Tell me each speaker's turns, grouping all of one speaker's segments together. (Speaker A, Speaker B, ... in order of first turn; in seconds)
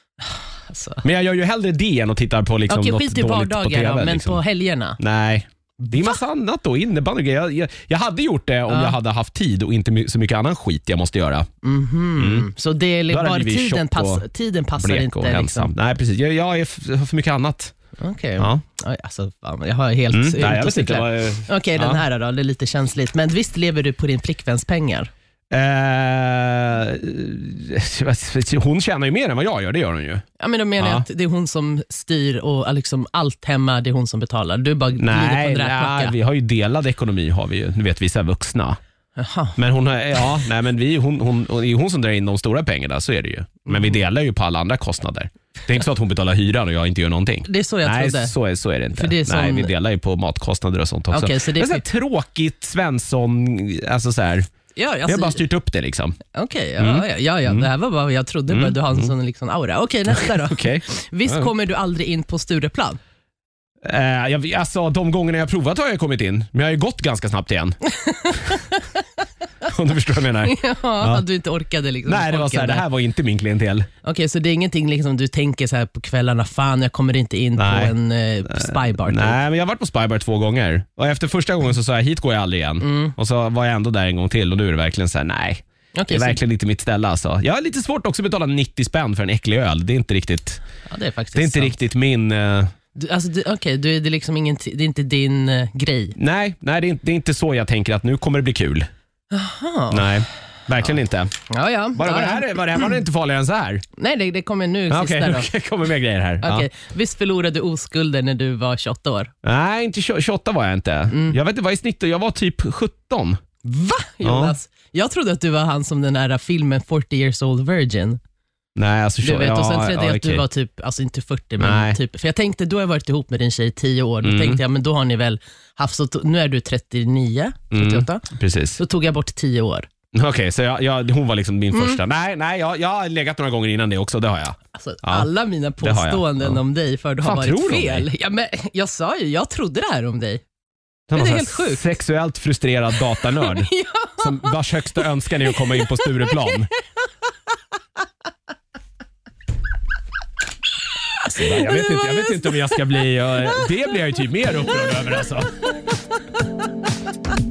Speaker A: 0.3-1.0, 2.7-5.0, 8.7-9.0, 11.6-15.7, 18.0-25.1, 30.4-36.1, 39.2-39.6, 47.4-48.3, 48.9-49.7, 51.1-51.8, 54.8-55.4, 56.3-63.0, 67.9-69.0, 70.4-72.8, 74.0-79.4, 82.8-83.1, 85.9-86.4, 90.9-91.7, 93.0-96.2, 99.3-100.2, 101.5-102.9, 104.0-105.5, 106.4-109.3, 111.1-111.4, 113.6-118.2, 119.2-128.2, 128.8-129.9, 131.7-132.0, 134.7-140.4, 141.1-141.8, 143.1-146.5, 151.2-152.8
Speaker B: 1.0-4.4, 5.0-11.5, 12.2-12.5, 13.1-14.2, 14.8-17.7, 18.4-18.6, 20.1-22.0, 25.5-30.2, 30.8-31.1, 35.0-38.8, 39.5-54.5, 55.1-56.2, 56.8-57.7, 58.5-59.1, 60.1-61.5, 63.8-67.8, 69.6-71.2, 72.0-73.9, 77.6-77.9, 78.5-90.6, 91.3-92.7, 96.2-98.9, 99.9-101.3, 101.9-103.8, 104.9-106.7, 109.4-113.4, 114.2-114.5, 118.8-120.4, 121.6-122.0, 124.2-124.6, 127.7-128.8, 130.1-135.3, 135.8-136.6, 137.2-138.1, 141.1-146.7, 151.3-155.6